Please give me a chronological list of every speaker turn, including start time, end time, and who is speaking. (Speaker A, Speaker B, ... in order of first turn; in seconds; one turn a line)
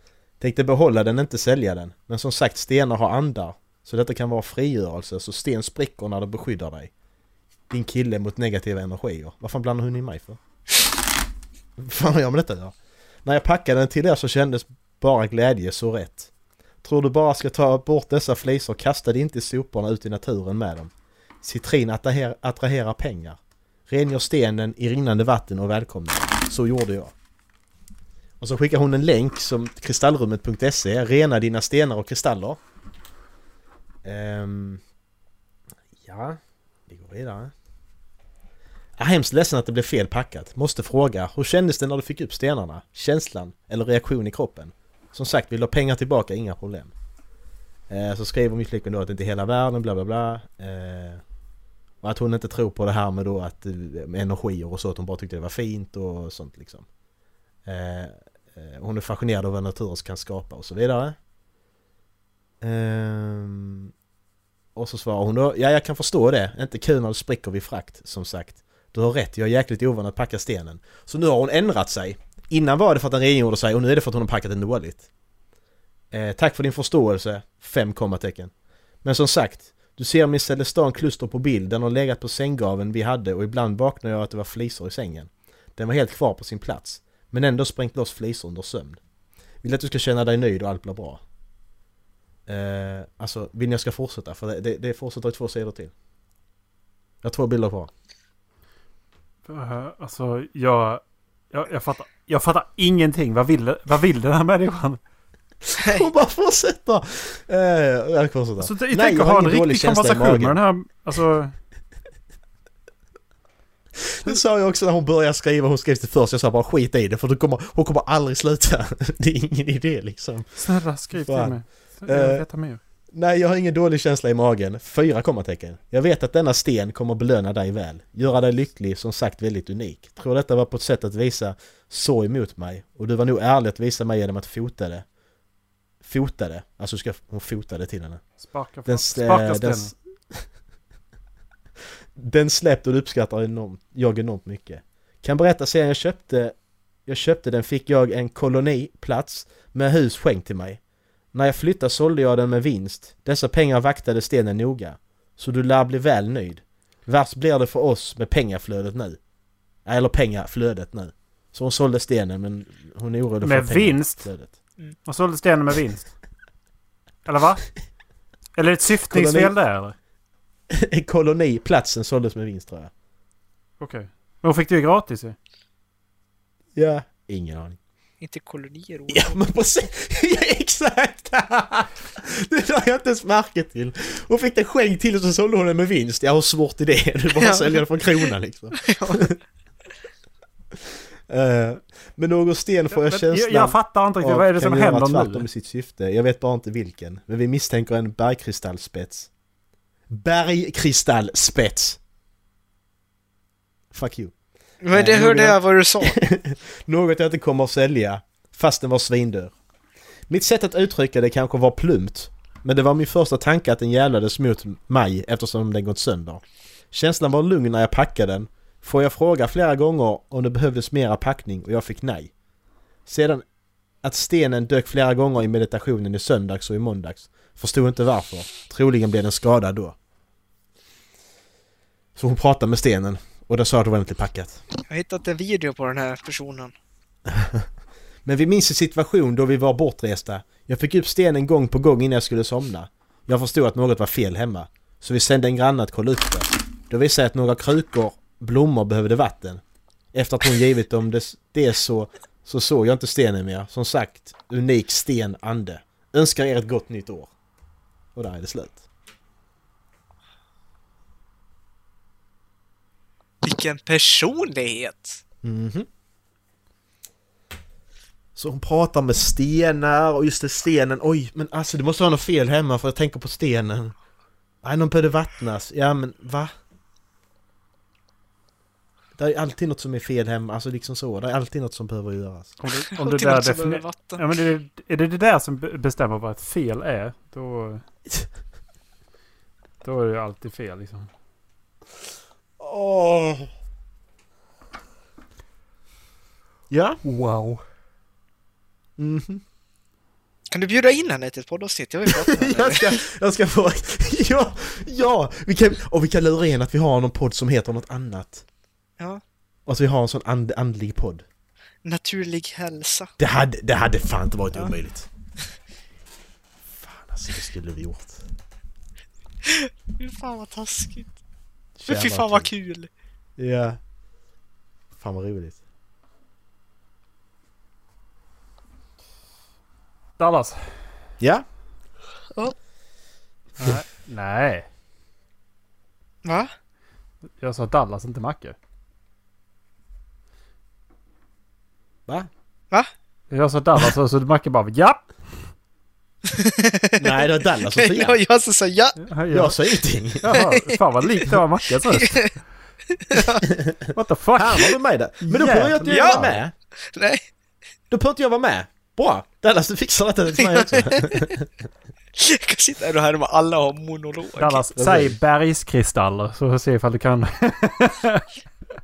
Speaker A: 0.4-6.9
Speaker A: 7.7-10.4
Speaker A: 11.8-16.3
Speaker A: 16.8-20.9
Speaker A: 21.4-27.1
Speaker A: 28.4-32.6
Speaker A: 34.0-34.8
Speaker A: 36.0-37.5
Speaker A: 39.0-46.9
Speaker A: 47.9-51.2
Speaker A: 52.0-56.9
Speaker A: 57.6-61.1
Speaker A: 62.6-63.9
Speaker A: 64.7-75.1
Speaker A: 76.1-78.5
Speaker A: 79.0-89.0
Speaker A: 89.6-91.2
Speaker A: 92.5-95.9
Speaker A: 97.2-97.9
Speaker B: 99.5-105.0
Speaker A: 105.7-110.6
Speaker C: 105.8-106.1
Speaker B: 108.6-111.5
Speaker A: 114.0-120.5
Speaker B: 120.5-122.8
Speaker A: 121.1-122.5
Speaker A: 123.1-135.0
Speaker A: 136.0-138.2
Speaker B: 138.4-139.9
Speaker A: 138.9-140.4
Speaker A: 142.2-146.5
Speaker A: 147.1-150.8
Speaker A: 151.3-159.2
Speaker A: 159.9-164.5
Speaker B: 163.4-164.3
Speaker B: 165.1-166.1
Speaker B: 167.2-167.7
Speaker B: 168.6-169.9
Speaker A: 169.1-169.5
Speaker A: 170.7-172.9
Speaker B: 173.8-175.4
Speaker A: 176.8-177.8
Speaker C: 178.2-179.4
Speaker A: 179.1-189.4
Speaker C: 187.4-188.2
Speaker C: 188.8-189.3
Speaker A: 191.3-199.3
Speaker B: 192.9-195.5
Speaker A: 200.1-202.0
Speaker A: 203.9-204.3
Speaker C: 204.8-206.2
Speaker A: 204.9-209.5
Speaker A: 210.3-222.3
Speaker A: 223.1-223.4
Speaker A: 224.0-229.9
Speaker A: 232.2-234.6
Speaker C: 234.9-236.7
Speaker A: 237.3-237.7
Speaker A: 238.2-249.6
Speaker A: 250.1-257.3
Speaker A: 258.1-258.8
Speaker C: 263.4-265.2
Speaker A: 265.4-265.9
Speaker A: 268.4-273.9
Speaker A: 274.6-276.5
Speaker A: 279.1-282.5
Speaker B: 282.6-287.8
Speaker C: 282.9-284.2
Speaker B: 289.8-291.1
Speaker A: 292.6-293.5
Speaker A: 296.7-297.0
Speaker B: 297.0-297.6
Speaker A: 299.0-299.4
Speaker C: 300.5-303.0
Speaker A: 302.1-308.4
Speaker A: 309.7-311.2
Speaker C: 311.9-313.1
Speaker A: 313.2-315.1
Speaker A: 316.7-318.2
Speaker C: 319.4-321.1
Speaker A: 321.8-322.5
Speaker C: 321.9-322.9
Speaker A: 323.4-323.8
Speaker A: 325.0-325.6
Speaker B: 330.2-330.6
Speaker A: 331.2-331.4
Speaker B: 333.6-334.7
Speaker C: 336.2-336.5
Speaker B: 337.4-338.6
Speaker B: 343.3-345.1
Speaker C: 346.2-349.0
Speaker A: 347.0-348.2
Speaker B: 349.0-349.6
Speaker A: 349.3-350.3
Speaker B: 350.2-352.3
Speaker C: 350.3-350.8
Speaker C: 351.9-352.3
Speaker C: 352.9-353.4
Speaker A: 353.5-356.5
Speaker B: 353.9-356.2
Speaker C: 355.9-356.4
Speaker C: 356.9-357.2
Speaker A: 357.9-361.4
Speaker C: 360.4-361.3
Speaker C: 362.2-364.6
Speaker B: 364.4-368.2
Speaker A: 364.8-365.1